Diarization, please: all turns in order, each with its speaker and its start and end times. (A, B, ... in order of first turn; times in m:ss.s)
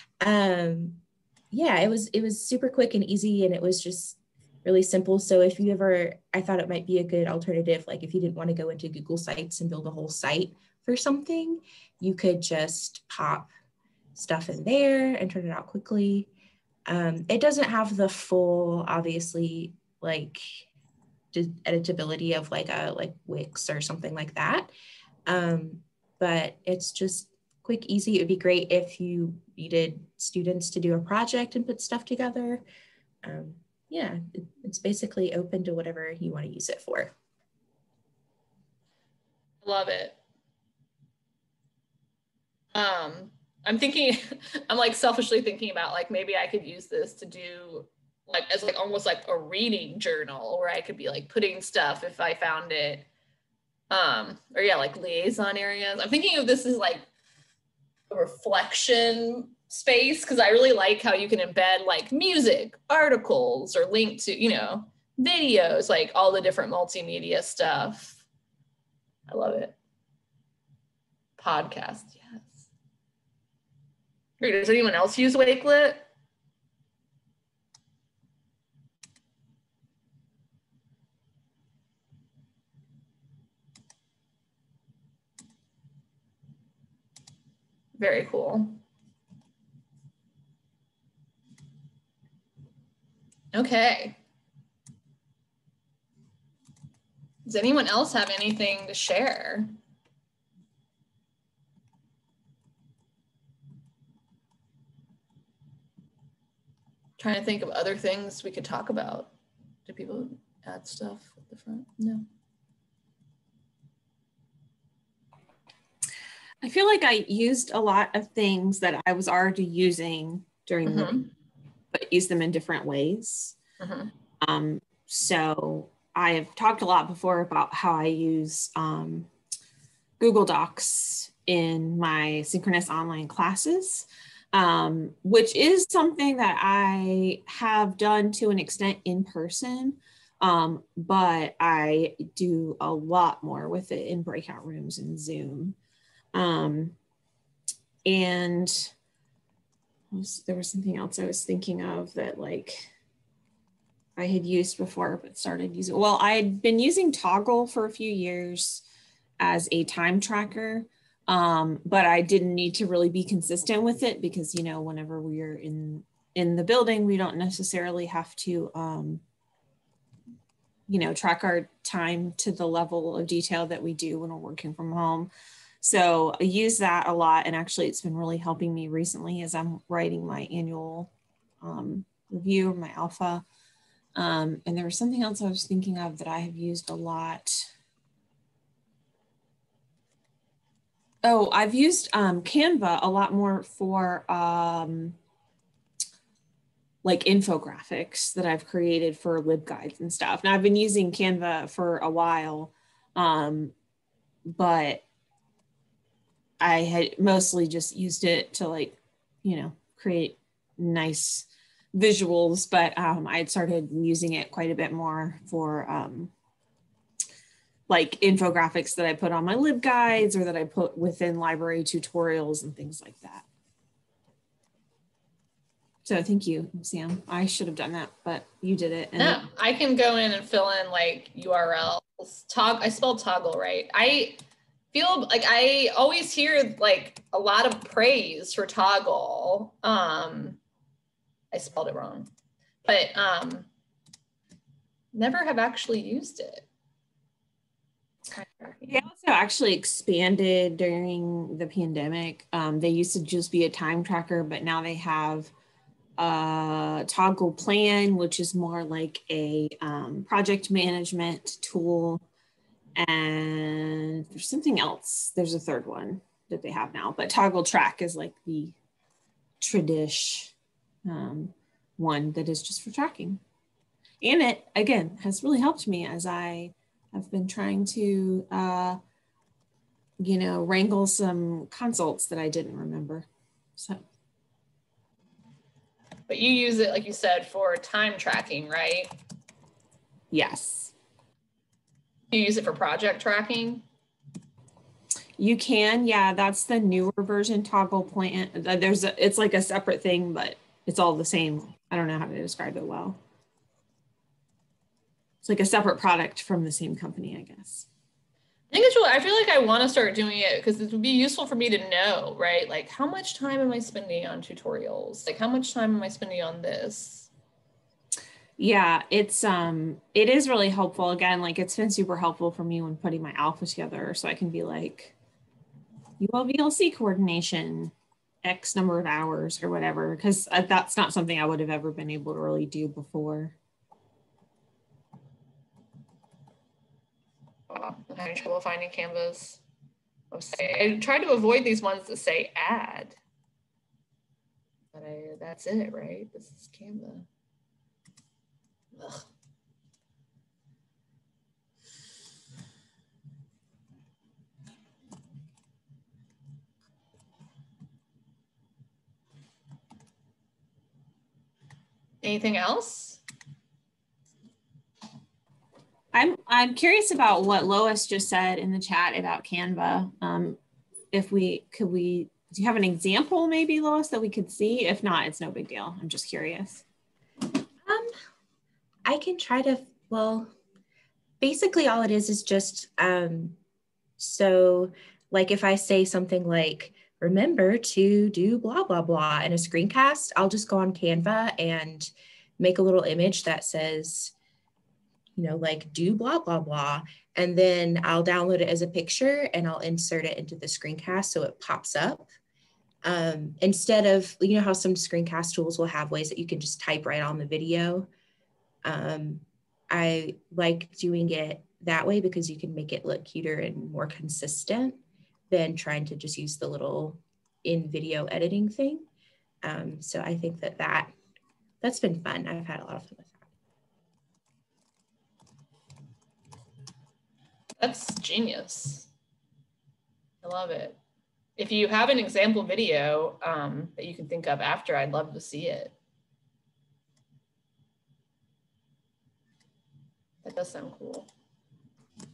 0:00.2-0:01.0 A
0:01.5-0:13.5 A
0:14.2-0:16.3 A
0:16.9-0:20.6 A
0:21.3-0:24.7 A
0:25.3-0:32.6 A
0:33.2-0:37.1 A
0:39.6-0:40.2 B
0:42.7-0:53.1 B
0:53.9-0:57.1 B
0:58.1-1:08.2 B
1:09.3-1:09.8 B
1:11.4-1:12.7 B
1:14.4-1:16.1 B
1:28.0-1:28.8 B
1:33.5-1:34.2 B
1:37.5-1:39.7 B
1:47.2-1:49.3 B
1:49.9-1:52.2 B
1:56.6-2:01.3 C
2:00.9-2:01.2 B
2:01.9-2:03.6 C
2:03.8-2:04.1 B
2:04.4-2:09.3 C
2:10.2-2:25.8 C
2:26.3-2:27.0 C
2:28.0-2:28.9 C
2:30.1-2:32.9 C
2:34.2-2:38.8 C
2:39.4-2:49.2 C
2:50.9-2:55.3 C
2:55.8-3:01.1 C
3:01.6-3:03.4 C
3:04.2-3:07.7 C
3:11.2-3:15.2 C
3:17.0-3:23.8 C
3:24.5-3:25.0 C
3:26.6-3:36.3 C
3:37.9-3:43.4 C
3:46.0-3:49.4 C
3:49.2-3:54.4 B
3:54.9-4:00.6 B
4:01.5-4:02.3 B
4:02.8-4:03.7 B
4:05.1-4:06.7 B
4:08.3-4:09.1 B
4:08.9-4:15.5 C
4:16.2-4:22.2 C
4:23.0-4:28.8 C
4:29.6-4:30.5 C
4:31.0-4:33.4 C
4:34.2-4:39.0 C
4:40.2-4:44.0 C
4:46.3-4:49.1 B
4:50.3-4:50.9 C
4:52.3-4:53.8 B
4:55.4-5:03.2 C
5:05.4-5:07.9 C
5:08.7-5:17.3 B
5:18.6-5:25.2 C
5:26.2-5:33.6 C
5:37.7-5:39.6 B
5:40.3-5:43.2 B
5:44.9-5:47.3 B
5:48.9-5:49.3 B
6:02.2-6:03.2 B
6:06.1-6:10.6 C
6:11.1-6:16.8 C
6:19.0-6:20.5 A
6:21.4-6:23.6 A
6:24.2-6:34.3 A
6:35.4-6:42.3 A
6:43.0-6:48.1 A
6:48.8-6:55.0 A
6:55.5-6:59.1 A
6:59.6-7:01.2 A
7:01.8-7:03.4 A
7:07.8-7:09.1 B
7:10.4-7:11.0 B
7:11.6-7:15.9 B
7:20.4-7:21.3 B